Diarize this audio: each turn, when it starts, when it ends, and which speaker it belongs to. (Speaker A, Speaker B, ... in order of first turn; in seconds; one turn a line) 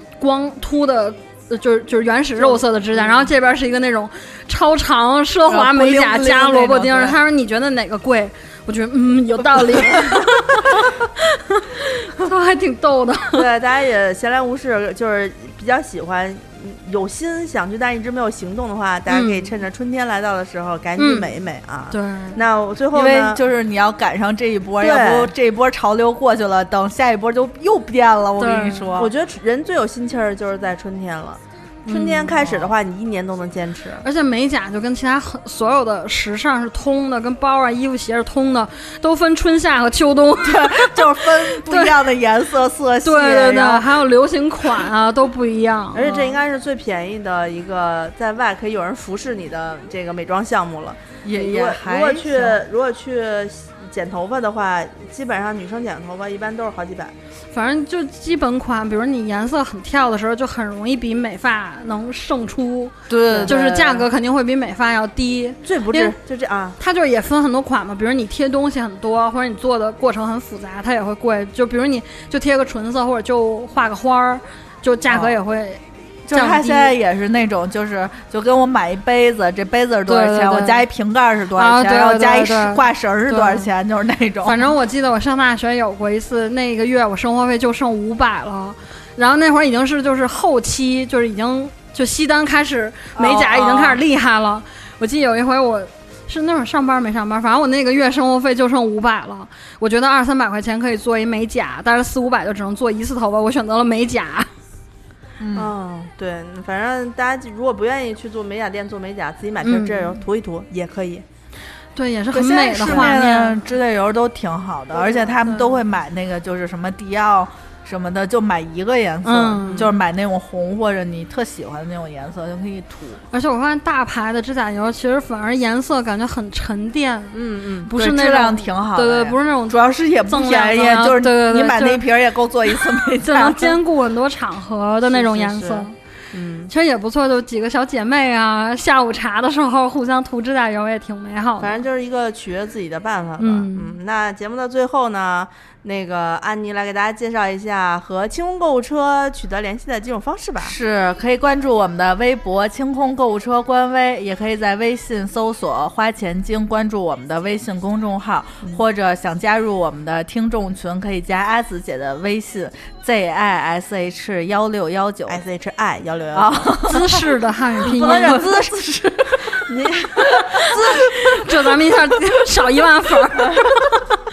Speaker A: 0.2-13.5
Speaker B: 5.5-7.2
Speaker B: 9.8-10.3
Speaker C: 13.3-23.4
Speaker A: 19.1-19.5
Speaker A: 21.0-21.3
Speaker A: 21.9-22.4
Speaker B: 22.9-29.1
Speaker C: 24.8-25.3
Speaker A: 28.4-29.0
Speaker C: 29.0-34.0
Speaker A: 31.9-32.6
Speaker A: 34.0-42.1
Speaker B: 40.4-43.9
Speaker A: 43.0-46.1
Speaker C: 45.9-57.1
Speaker B: 46.1-46.3
Speaker B: 51.2-52.6
Speaker A: 57.5-66.2
Speaker B: 63.1-63.8
Speaker C: 63.3-64.0
Speaker C: 65.6-66.8
Speaker A: 66.8-77.0
Speaker B: 75.1-75.4
Speaker B: 76.3-84.7
Speaker A: 80.1-80.8
Speaker A: 81.5-83.7
Speaker A: 84.4-104.5
Speaker B: 93.1-94.0
Speaker B: 105.4-105.7
Speaker C: 105.5-111.2
Speaker A: 109.6-110.2
Speaker A: 112.0-113.6
Speaker B: 112.3-123.2
Speaker C: 114.9-115.4
Speaker A: 119.2-119.9
Speaker C: 119.6-119.9
Speaker A: 123.3-132.0
Speaker C: 127.3-127.9
Speaker B: 127.9-133.8
Speaker A: 132.7-135.9
Speaker C: 135.1-136.7
Speaker A: 136.7-141.8
Speaker C: 141.6-150.7
Speaker A: 143.4-143.9
Speaker B: 150.6-165.4
Speaker C: 165.3-166.9
Speaker B: 166.3-167.3
Speaker A: 166.8-168.5
Speaker B: 167.8-171.9
Speaker C: 168.0-168.6
Speaker C: 169.7-170.8
Speaker A: 170.6-174.0
Speaker B: 173.5-173.8